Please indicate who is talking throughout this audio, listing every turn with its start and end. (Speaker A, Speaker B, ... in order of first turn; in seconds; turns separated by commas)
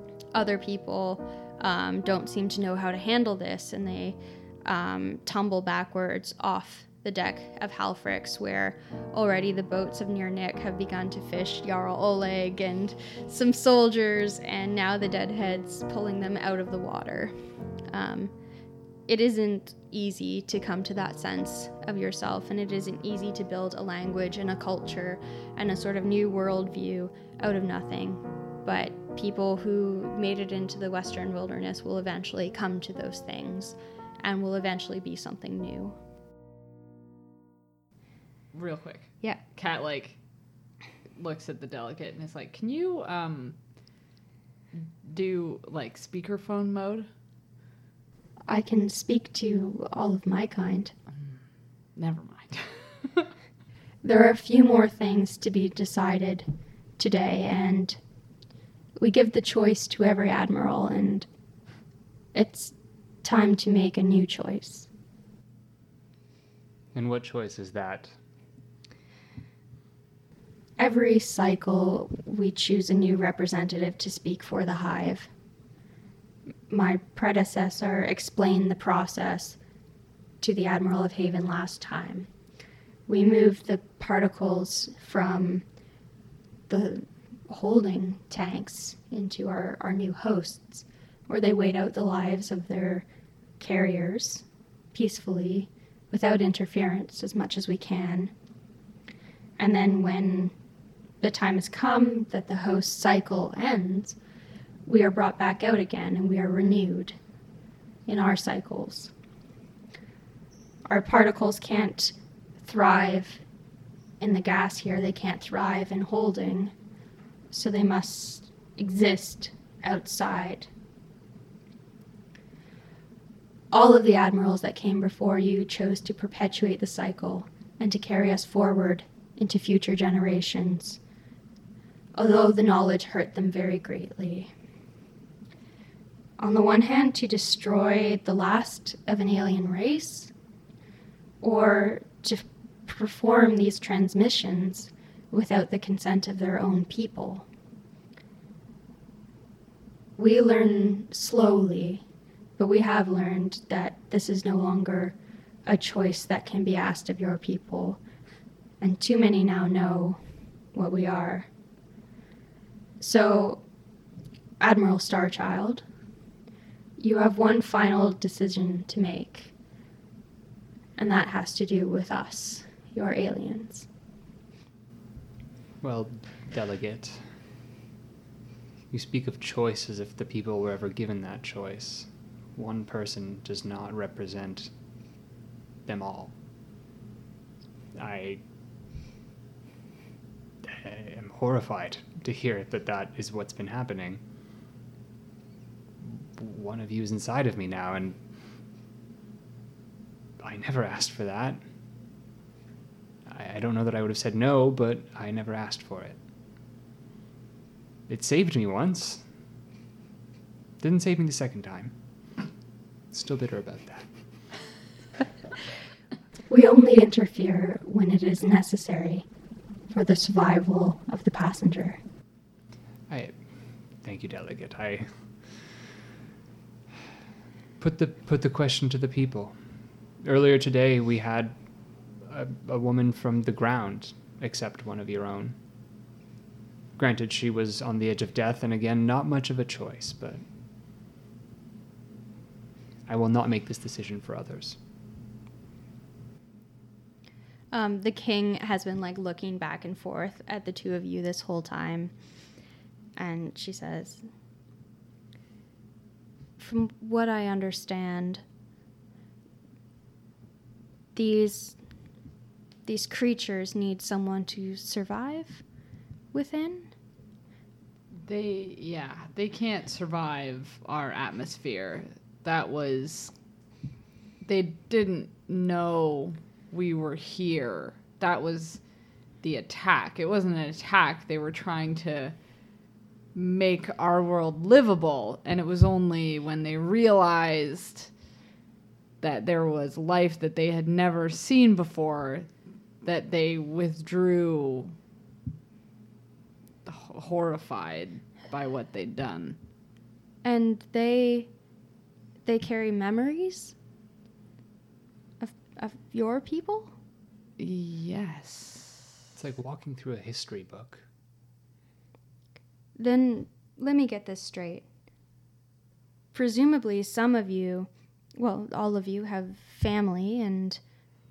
Speaker A: 0.3-17.3, Speaker A: 17.9-18.3, Speaker A: 19.1-35.9, Speaker B: 38.5-40.2, Speaker B: 41.1-43.6, Speaker B: 44.7-47.1, Speaker A: 48.5-50.9, Speaker B: 51.9-53.3, Speaker A: 54.0-56.5, Speaker A: 57.0-58.0, Speaker A: 59.0-61.3, Speaker A: 62.3-64.9, Speaker C: 66.9-68.2, Speaker A: 70.8-75.3, Speaker A: 76.7-79.6, Speaker A: 80.4-82.3, Speaker A: 83.1-85.6, Speaker A: 86.7-93.0, Speaker A: 93.6-98.3, Speaker A: 99.6-100.5, Speaker A: 101.2-104.2, Speaker A: 104.8-107.2, Speaker A: 108.1-109.1, Speaker A: 110.9-113.4, Speaker A: 114.2-116.7, Speaker A: 117.5-120.7, Speaker A: 123.7-131.0, Speaker A: 132.1-134.5, Speaker A: 136.4-140.3, Speaker A: 141.4-147.5, Speaker A: 150.2-152.0, Speaker A: 152.6-155.1, Speaker A: 155.7-158.0, Speaker A: 158.8-160.2, Speaker A: 160.7-161.5, Speaker A: 163.0-163.6, Speaker A: 164.6-165.8, Speaker A: 167.0-169.5, Speaker A: 170.9-173.9, Speaker C: 175.8-177.4, Speaker C: 178.9-184.7, Speaker C: 185.8-186.3, Speaker C: 187.9-188.4, Speaker C: 190.6-194.2, Speaker C: 196.0-198.2, Speaker C: 200.4-201.6, Speaker C: 203.2-206.2, Speaker C: 208.1-209.3, Speaker C: 210.8-211.9, Speaker C: 213.1-214.1, Speaker A: 216.5-219.2, Speaker A: 219.9-222.0, Speaker C: 223.1-223.4, Speaker C: 224.0-225.9, Speaker C: 227.8-229.5, Speaker C: 230.2-231.6, Speaker C: 232.2-235.6, Speaker C: 236.9-240.4, Speaker C: 243.1-244.8, Speaker A: 247.7-252.1, Speaker A: 253.2-254.2, Speaker A: 256.6-258.4, Speaker A: 261.1-261.8, Speaker A: 262.9-265.6, Speaker A: 266.3-266.9, Speaker B: 268.2-273.3, Speaker B: 274.4-278.8, Speaker B: 279.4-282.3, Speaker B: 283.3-288.1, Speaker B: 289.2-294.9, Speaker B: 296.8-299.6, Speaker A: 300.4-301.5, Speaker A: 302.4-303.7, Speaker A: 305.4-306.9, Speaker B: 307.6-309.1, Speaker C: 309.4-311.1, Speaker A: 312.9-314.9, Speaker A: 316.3-320.8